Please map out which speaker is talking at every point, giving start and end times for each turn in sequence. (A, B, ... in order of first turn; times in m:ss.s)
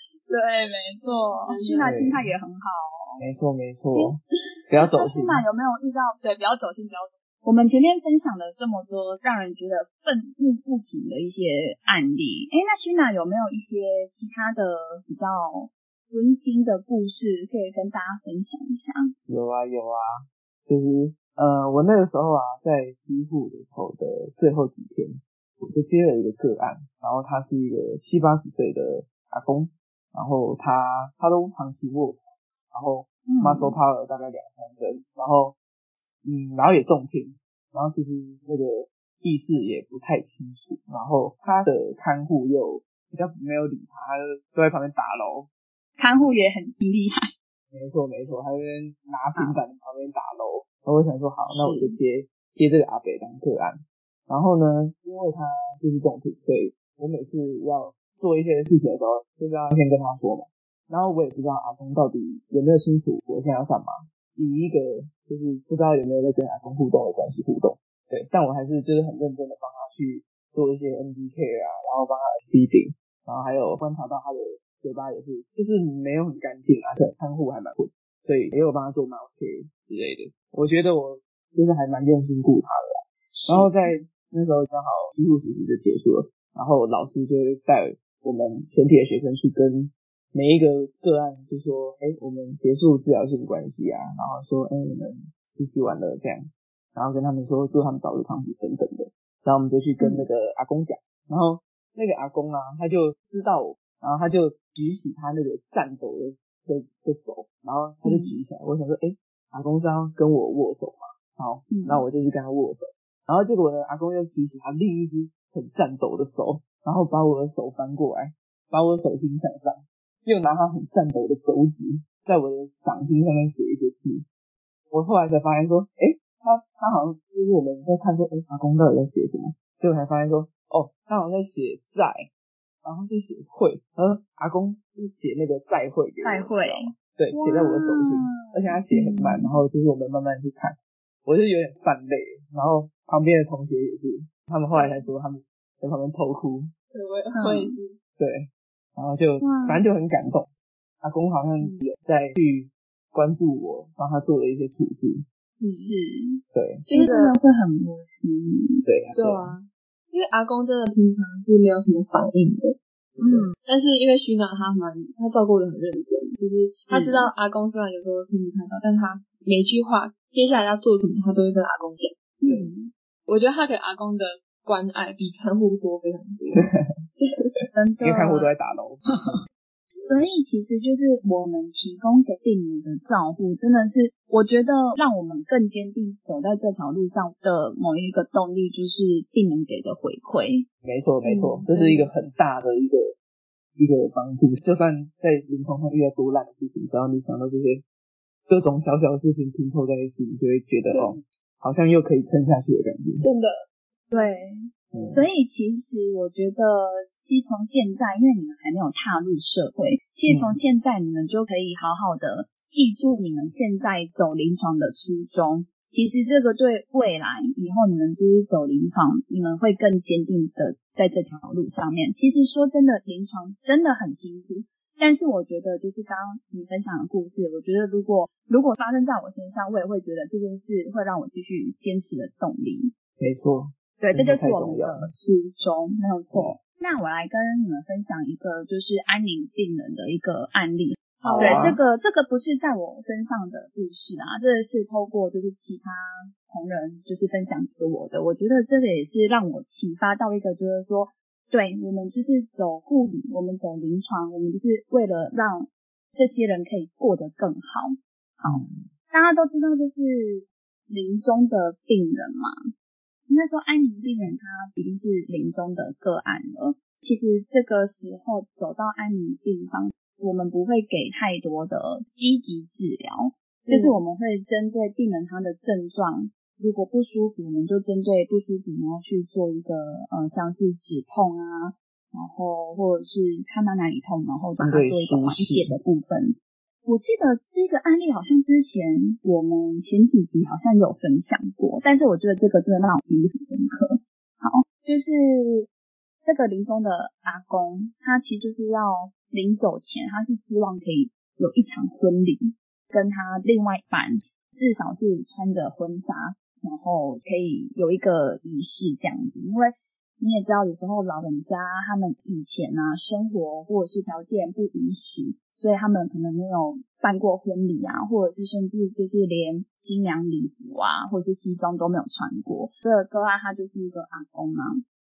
0:00.3-0:03.2 A
0:01.4-0:01.9 B
0:01.8-0:02.3 C
0:03.2-0:05.4 C
0:04.9-0:19.1 A
0:19.3-0:35.6 C
0:33.2-0:33.8 A
0:36.2-0:45.5 C
0:46.0-0:47.3 A
0:47.7-2:04.2 C
0:51.5-0:52.0 A
1:23.4-1:23.8 A
1:40.0-1:40.2 A
1:48.0-1:48.3 A
1:51.7-1:52.0 A
2:04.9-2:12.3 C
2:12.8-2:26.7 C
2:16.2-2:19.5 A
2:26.9-2:28.0 B
2:27.3-2:27.8 A
2:28.2-2:30.5 C
2:29.4-2:29.8 A
2:31.0-2:35.2 C
2:35.6-2:35.9 B
2:35.7-2:38.8 A
2:36.5-2:36.8 C
2:36.9-2:37.4 B
2:38.8-2:39.5 C
2:39.1-2:42.8 B
2:43.2-2:43.4 C
2:43.2-2:43.5 A
2:43.6-2:52.7 B
2:46.9-2:47.3 A
2:52.4-2:52.9 A
2:53.3-2:56.7 B
2:56.5-2:56.9 C
2:57.2-2:57.5 B
2:57.7-2:58.5 A
2:58.0-2:59.0 C
3:00.0-3:10.7 A
3:10.8-3:13.2 C
3:11.3-3:12.0 B
3:13.8-3:17.8 C
3:18.5-3:23.2 C
3:23.2-3:23.6 B
3:24.1-3:52.9 A
3:24.9-3:25.2 C
3:30.3-3:30.6 C
3:53.2-3:55.1 C
3:54.0-4:22.5 A
4:01.2-4:01.8 C
4:01.2-4:01.7 B
4:18.4-4:18.8 C
4:23.3-4:55.7 A
4:33.7-4:33.9 B
4:44.6-4:45.7 C
4:56.2-5:24.8 A